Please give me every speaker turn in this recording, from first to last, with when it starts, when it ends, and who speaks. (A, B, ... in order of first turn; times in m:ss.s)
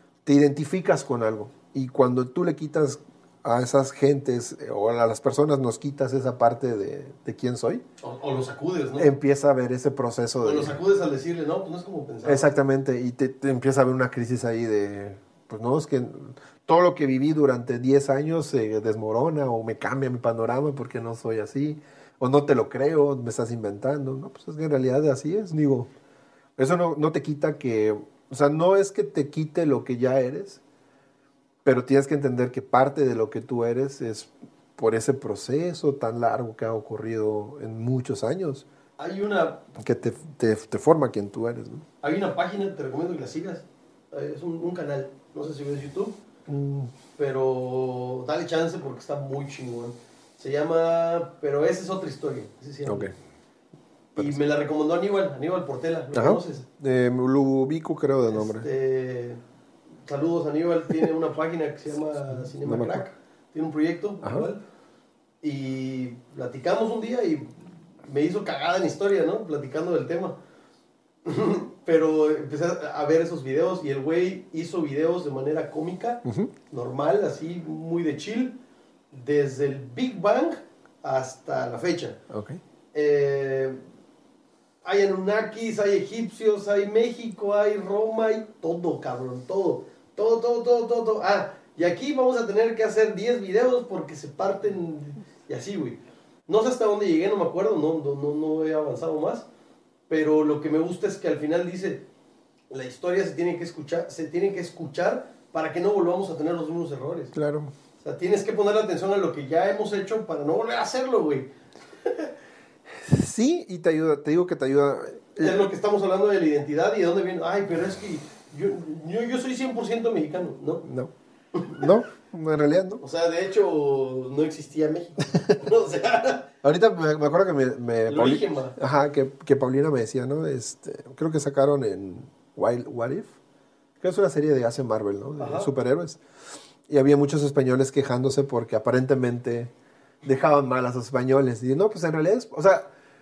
0:00.2-0:07.8 A
0:08.0-0:09.1 B
0:09.0-0:10.8 A
0:10.4-0:12.5 B
0:12.2-0:25.9 A
0:26.6-0:30.6 A
0:31.6-0:38.6 A
0:39.0-0:39.6 B
0:39.8-0:41.8 A
0:42.0-0:46.2 B
0:46.5-0:46.9 A
0:47.2-0:53.1 B
0:52.9-0:53.1 A
0:54.2-0:54.4 A
0:54.2-0:56.6 B
0:56.1-0:58.7 A
0:58.3-0:59.4 B
1:00.1-1:04.6 B
1:02.0-1:03.0 A
1:04.2-1:04.5 A
1:05.4-1:10.4 B
1:11.2-1:18.6 B
1:16.2-1:16.5 A
1:19.1-1:22.2 B
1:22.3-1:22.6 A
1:22.9-1:23.8 B
1:24.8-1:39.5 B
1:40.1-1:42.0 B
1:42.7-1:47.3 B
1:47.3-1:47.7 A
1:48.0-1:51.5 B
1:52.0-1:52.3 B
1:53.0-1:55.6 A
1:55.4-2:00.8 B
2:00.8-2:01.1 A
2:01.6-2:01.8 B
2:01.6-2:03.0 A
2:03.0-2:06.5 B
2:06.6-2:13.4 A
2:08.1-2:08.8 B
2:14.0-2:16.2 A
2:15.4-2:15.7 B
2:16.9-2:19.7 A
2:20.2-2:22.9 A